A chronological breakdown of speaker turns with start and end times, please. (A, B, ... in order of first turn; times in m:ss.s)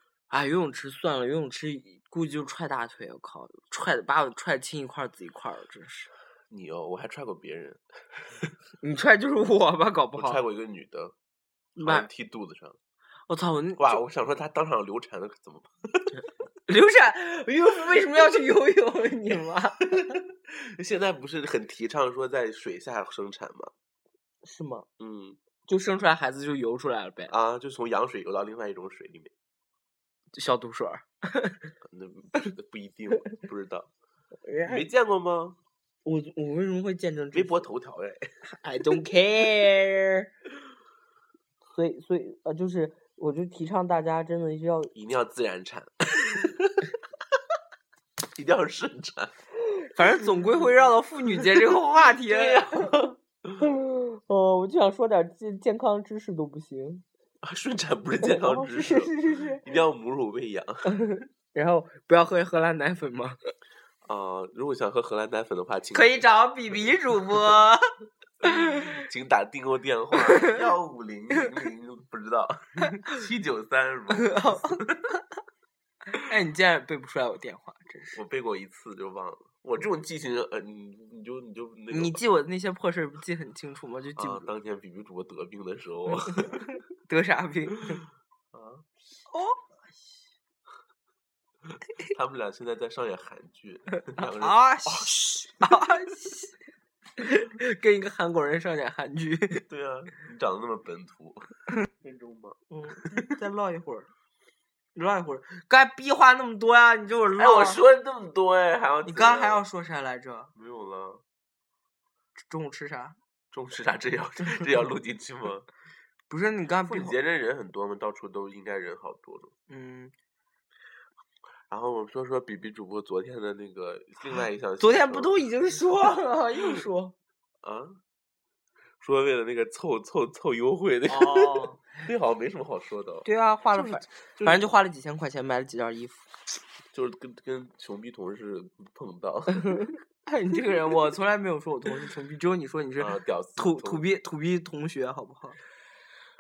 0:00.3-0:06.1 A
0:06.5-0:08.5 B
0:08.8-0:10.4 A
0:10.2-0:11.1 B
0:11.8-0:12.1 A
0:11.8-0:12.8 B
0:13.3-0:14.0 A
0:13.8-0:16.2 B
0:16.7-0:20.2 A
0:19.8-0:23.7 B
0:24.4-0:24.9 A
0:25.0-0:25.4 B
0:25.7-0:27.3 A
0:27.3-0:29.3 B
0:30.3-0:31.7 A
0:31.8-0:33.9 B
0:34.4-0:34.9 A
0:34.6-0:35.6 B
0:36.0-0:37.7 A
0:37.3-0:38.3 B
0:38.4-0:40.3 A
0:41.7-0:44.9 A
0:44.9-0:47.0 B
0:48.4-0:49.3 B
0:49.7-0:52.9 A
0:50.2-0:50.7 B
0:51.4-0:53.6 B
0:53.6-0:57.0 A
0:57.4-1:01.0 B
0:58.2-0:59.6 A
1:00.9-1:03.4 A
1:04.0-1:06.2 B
1:05.9-1:07.9 A
1:08.4-1:15.2 B
1:08.5-1:09.0 A
1:10.3-1:10.6 A
1:14.1-1:14.8 A
1:16.2-1:18.2 A
1:18.1-1:22.2 B
1:21.9-1:24.5 A
1:24.2-1:26.8 B
1:26.2-1:28.0 A
1:28.5-1:28.9 B
1:29.3-1:29.8 A
1:32.0-1:35.2 B
1:34.1-1:36.5 A
1:37.2-1:39.6 A
1:39.7-1:42.6 B
1:42.7-1:44.1 A
1:45.0-1:47.8 A
1:47.4-1:49.6 B
1:49.0-1:50.5 A
1:50.6-1:51.2 B
1:52.4-1:53.2 A
1:53.5-1:55.7 B
1:56.3-1:57.2 A
1:56.9-1:59.5 B
1:59.7-2:00.1 A
2:01.7-2:05.4 B
2:04.8-2:07.2 A
2:07.6-2:08.0 B
2:09.0-2:14.7 B
2:11.1-2:12.0 A
2:13.2-2:16.3 A
2:16.9-2:19.9 B
2:19.6-2:25.6 A
2:23.0-2:24.0 B